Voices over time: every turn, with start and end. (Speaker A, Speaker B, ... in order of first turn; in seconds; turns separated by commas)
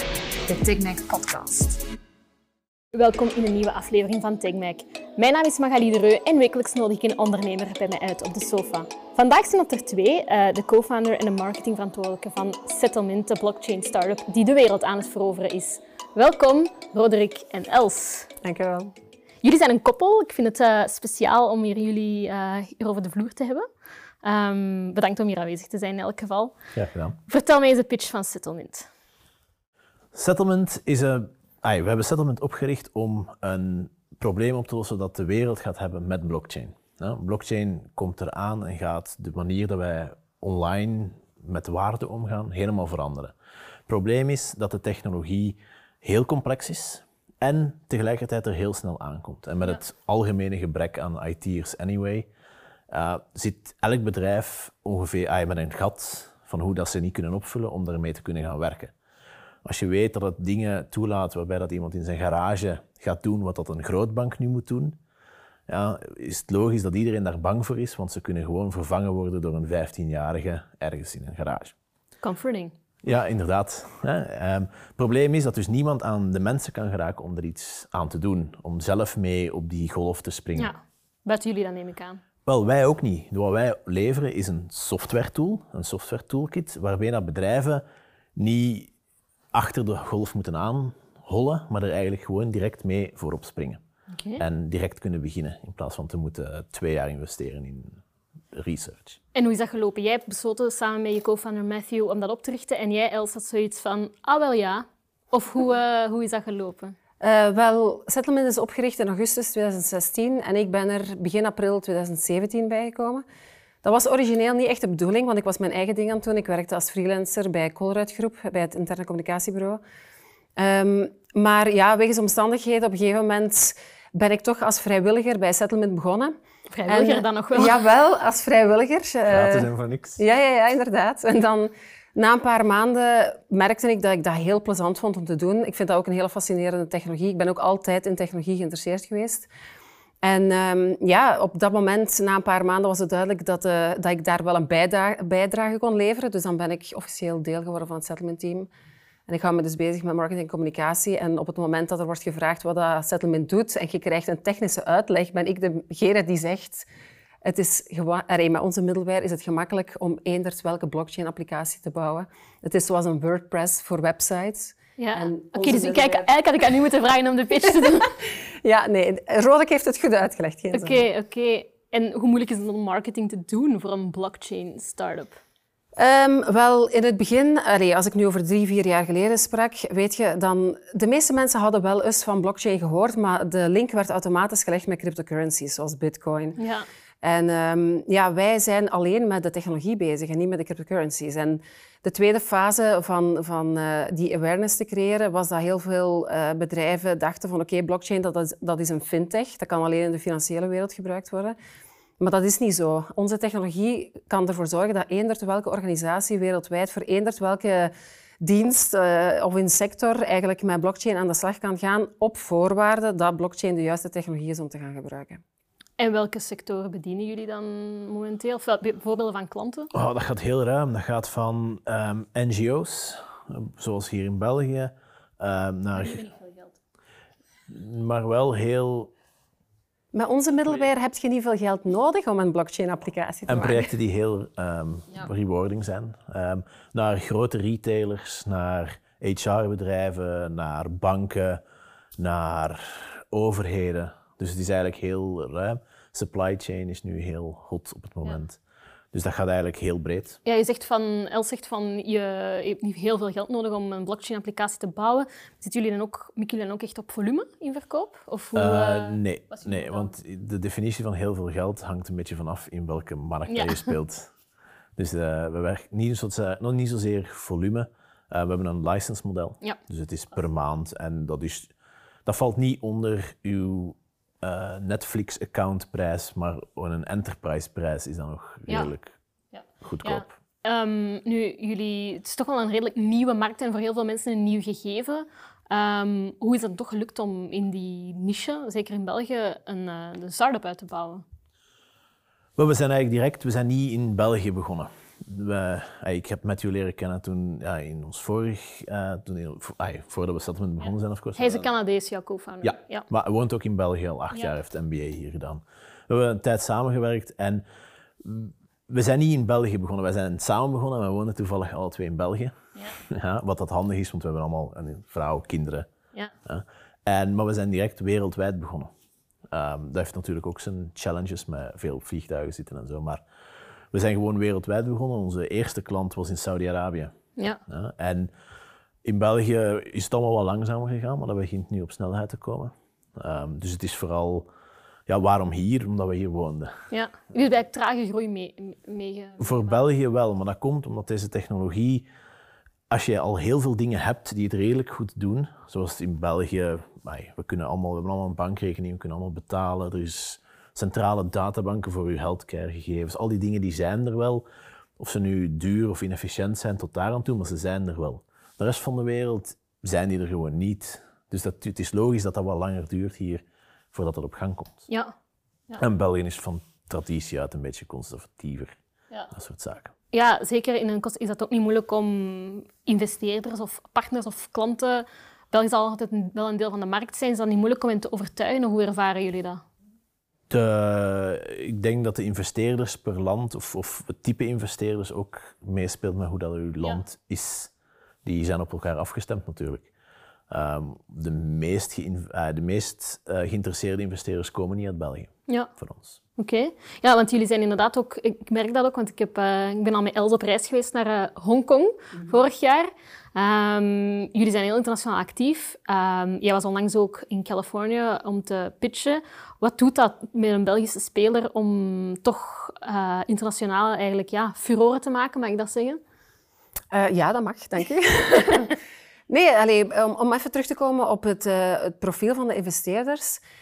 Speaker A: 0.5-1.8, Speaker A: 2.9-18.3, Speaker B: 18.4-18.9, Speaker A: 19.4-23.7, Speaker A: 24.2-26.6, Speaker C: 26.7-27.1, Speaker A: 27.3-28.9, Speaker C: 30.1-43.3, Speaker C: 43.9-52.3, Speaker C: 52.9-58.9, Speaker C: 59.6-65.0, Speaker C: 65.7-71.7, Speaker A: 72.2-72.7, Speaker C: 73.0-80.7, Speaker A: 80.5-82.2, Speaker C: 82.5-87.8, Speaker C: 88.3-88.9, Speaker C: 89.5-93.8, Speaker A: 94.1-94.4, Speaker C: 94.4-98.0, Speaker C: 98.5-99.2, Speaker A: 99.3-107.0, Speaker B: 107.2-113.2, Speaker B: 113.8-119.8, Speaker B: 120.5-126.3, Speaker A: 126.7-127.8, Speaker B: 126.9-139.5, Speaker C: 129.3-130.2, Speaker B: 140.2-148.7, Speaker B: 149.3-156.9, Speaker B: 157.4-166.3, Speaker A: 165.0-168.1, Speaker B: 167.7-171.0, Speaker A: 170.7-175.4, Speaker B: 176.0-186.6, Speaker A: 186.6-186.8, Speaker B: 187.2-201.6, Speaker B: 202.2-215.4, Speaker A: 216.0-219.9, Speaker C: 219.9-226.2, Speaker A: 226.0-226.8, Speaker C: 227.7-229.1, Speaker B: 230.1-233.9, Speaker C: 233.5-241.6, Speaker C: 242.2-248.6, Speaker C: 249.1-250.4, Speaker A: 250.4-260.1, Speaker C: 258.5-264.3, Speaker A: 263.5-263.9, Speaker C: 264.9-271.7, Speaker C: 272.2-279.1, Speaker A: 279.5-291.2, Speaker C: 279.8-280.4, Speaker C: 292.6-301.7, Speaker A: 301.4-303.1, Speaker C: 302.6-307.6, Speaker C: 308.2-315.9, Speaker C: 316.4-318.9, Speaker C: 319.5-323.2, Speaker C: 323.9-327.1, Speaker C: 327.7-328.3, Speaker C: 329.0-334.5, Speaker C: 335.1-336.7, Speaker A: 336.9-339.8, Speaker C: 339.4-342.1, Speaker C: 342.9-354.4, Speaker C: 355.0-364.9, Speaker C: 365.8-368.8, Speaker C: 369.3-369.9, Speaker A: 370.1-379.6, Speaker C: 380.5-387.7, Speaker C: 388.2-389.9, Speaker C: 390.5-396.2, Speaker A: 396.4-416.0, Speaker B: 416.9-418.8, Speaker B: 419.3-423.4